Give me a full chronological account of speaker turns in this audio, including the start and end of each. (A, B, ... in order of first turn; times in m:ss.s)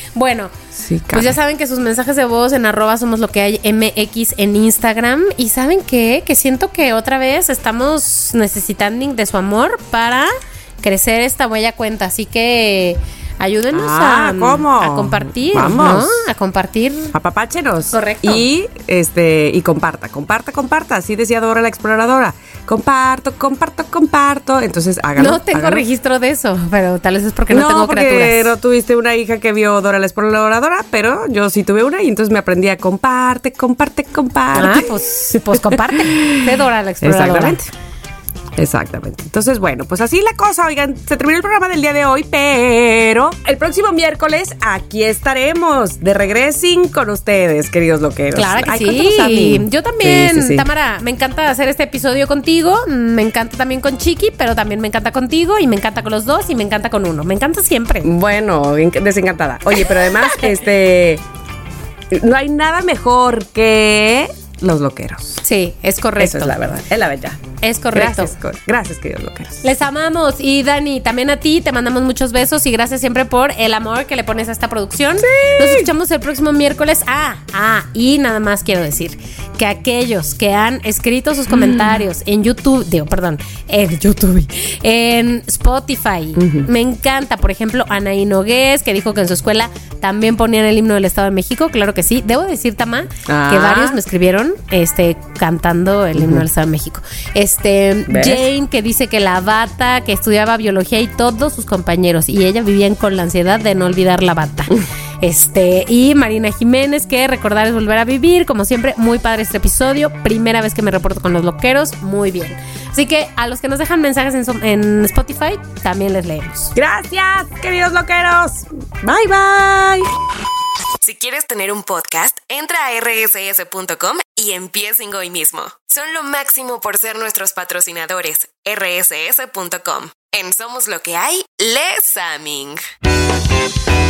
0:00.2-0:00.5 A
0:00.8-0:01.4 B
0:01.1-0:17.1 A
0:13.7-0:16.2 B
0:17.1-0:25.8 B
0:17.9-0:18.4 A
0:25.2-0:28.5 A
0:27.5-0:36.5 B
0:34.6-0:37.6 A
0:37.0-0:37.7 B
0:38.6-0:50.7 B
0:48.4-0:58.1 A
0:58.0-1:01.2 B
1:00.2-1:00.5 A
1:02.1-1:05.4 B
1:05.4-1:06.6 A
1:06.2-1:07.4 B
1:07.6-1:08.3 A
1:07.9-1:09.6 B
1:09.6-1:56.7 A
1:15.2-1:15.9 B
1:21.5-1:22.0 B
1:26.4-1:26.7 B
1:33.3-1:34.0 B
1:36.2-1:36.5 B
1:38.1-1:38.4 B
1:56.8-2:00.1 B
2:01.0-2:12.8 C